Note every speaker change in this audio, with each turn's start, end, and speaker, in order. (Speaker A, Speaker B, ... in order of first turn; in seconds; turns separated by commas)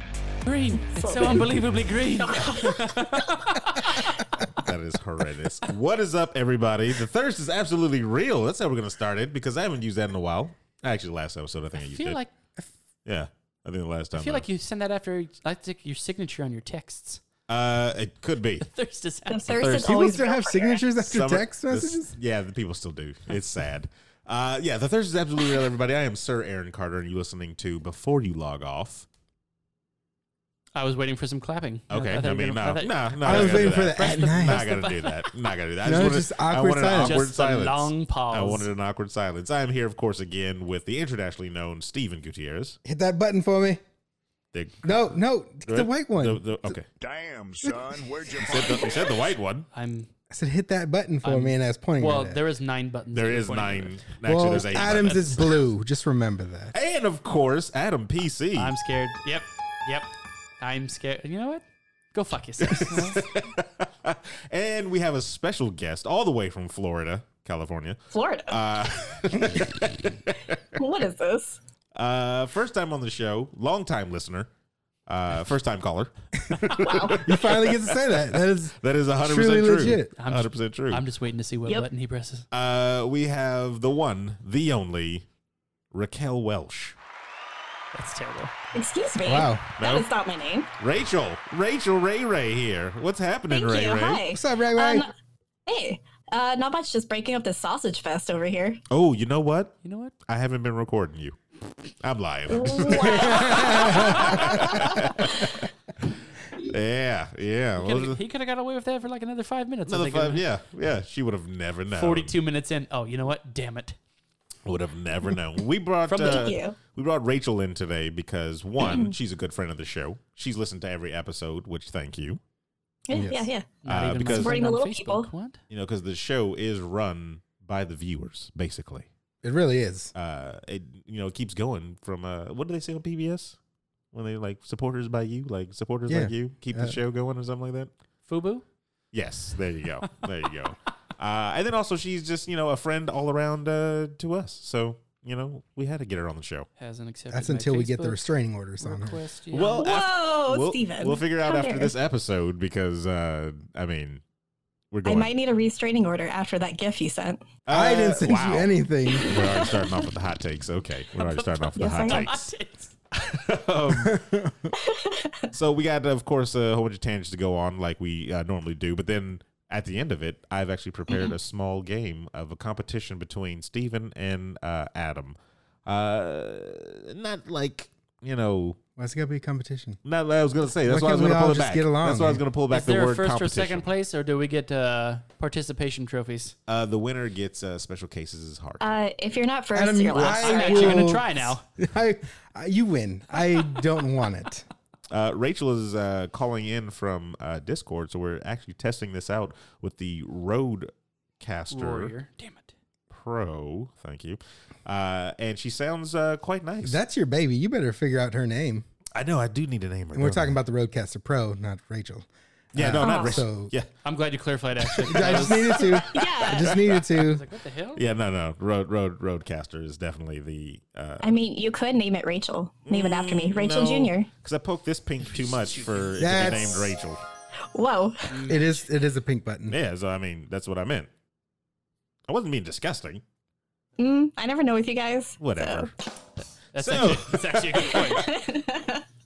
Speaker A: 0.4-4.6, Speaker B: 0.8-1.5, Speaker B: 2.2-3.6, Speaker C: 4.5-12.2, Speaker A: 11.8-12.3, Speaker C: 13.1-14.4, Speaker A: 14.1-17.2, Speaker C: 17.5-18.6, Speaker A: 18.6-19.6, Speaker B: 19.3-20.8, Speaker C: 19.5-20.1, Speaker D: 19.6-22.1, Speaker C: 21.0-29.1, Speaker A: 30.7-35.3, Speaker C: 31.9-42.8, Speaker D: 33.2-34.6, Speaker D: 35.8-37.2, Speaker A: 37.0-38.7, Speaker D: 42.8-43.8, Speaker C: 44.5-45.1, Speaker D: 44.8-46.7, Speaker C: 45.6-46.9, Speaker E: 47.0-49.2, Speaker D: 47.6-48.0, Speaker C: 48.5-49.7, Speaker A: 49.7-50.1, Speaker D: 50.3-52.4, Speaker A: 51.2-55.6, Speaker C: 53.1-55.6, Speaker D: 54.2-56.7, Speaker C: 56.7-58.7, Speaker A: 58.5-60.1, Speaker A: 60.6-63.2, Speaker C: 62.6-70.6, Speaker B: 68.1-68.6, Speaker B: 70.8-71.6, Speaker C: 71.9-74.5, Speaker C: 75.1-81.0, Speaker B: 76.8-77.3, Speaker D: 77.2-80.1, Speaker A: 80.2-82.5, Speaker C: 82.5-85.2, Speaker C: 85.9-87.0, Speaker A: 87.9-88.5, Speaker B: 88.7-90.7, Speaker D: 89.2-89.6, Speaker C: 89.8-90.1, Speaker C: 90.8-94.2, Speaker B: 93.5-95.1, Speaker D: 94.3-95.1, Speaker B: 95.7-98.8, Speaker C: 98.9-101.4, Speaker A: 99.8-100.1, Speaker C: 101.9-108.2, Speaker B: 102.5-105.5, Speaker D: 103.5-104.0, Speaker A: 104.0-104.4, Speaker A: 107.8-110.5, Speaker C: 109.9-112.3, Speaker A: 111.9-114.0, Speaker C: 114.6-122.4, Speaker A: 116.1-116.5, Speaker B: 116.1-116.7, Speaker B: 118.8-119.1, Speaker B: 123.1-123.7, Speaker D: 123.1-123.5, Speaker A: 123.8-125.6, Speaker C: 123.8-124.6, Speaker B: 124.3-125.3, Speaker C: 125.7-129.1, Speaker D: 129.4-130.1, Speaker C: 130.1-133.6, Speaker C: 134.1-137.9, Speaker D: 136.1-137.0, Speaker A: 138.2-138.6, Speaker C: 139.1-146.7, Speaker A: 146.8-149.9, Speaker D: 147.3-149.2, Speaker C: 149.5-154.2, Speaker B: 149.6-151.9, Speaker C: 154.9-155.3, Speaker B: 155.1-157.4, Speaker C: 157.6-162.5, Speaker D: 157.7-159.6, Speaker A: 161.2-162.9, Speaker B: 161.8-162.3, Speaker C: 163.1-164.4, Speaker D: 163.9-164.7, Speaker B: 164.8-165.3, Speaker C: 165.5-175.3, Speaker C: 175.8-178.8, Speaker D: 179.0-180.0, Speaker C: 180.0-183.8, Speaker D: 180.8-182.4, Speaker A: 182.7-186.5, Speaker C: 186.7-188.8, Speaker B: 188.8-191.1, Speaker D: 189.7-194.7, Speaker A: 190.1-191.6, Speaker C: 195.1-202.1, Speaker A: 201.7-202.7, Speaker C: 203.1-207.0, Speaker D: 206.8-208.8, Speaker C: 209.1-210.6, Speaker D: 210.1-213.7, Speaker C: 212.7-213.9, Speaker B: 213.0-213.4, Speaker A: 214.0-215.9, Speaker D: 215.0-217.4, Speaker C: 215.1-217.3, Speaker B: 216.0-216.8, Speaker A: 217.2-218.0, Speaker C: 217.9-221.3, Speaker B: 221.2-224.3, Speaker C: 222.8-227.2, Speaker A: 225.2-226.1, Speaker D: 226.2-227.0, Speaker B: 227.7-228.4, Speaker A: 228.3-228.8, Speaker D: 228.4-229.8, Speaker C: 229.7-231.1, Speaker C: 232.3-233.2, Speaker B: 234.0-235.9, Speaker C: 235.4-235.9, Speaker A: 236.7-238.2, Speaker C: 236.8-238.3, Speaker B: 237.9-239.0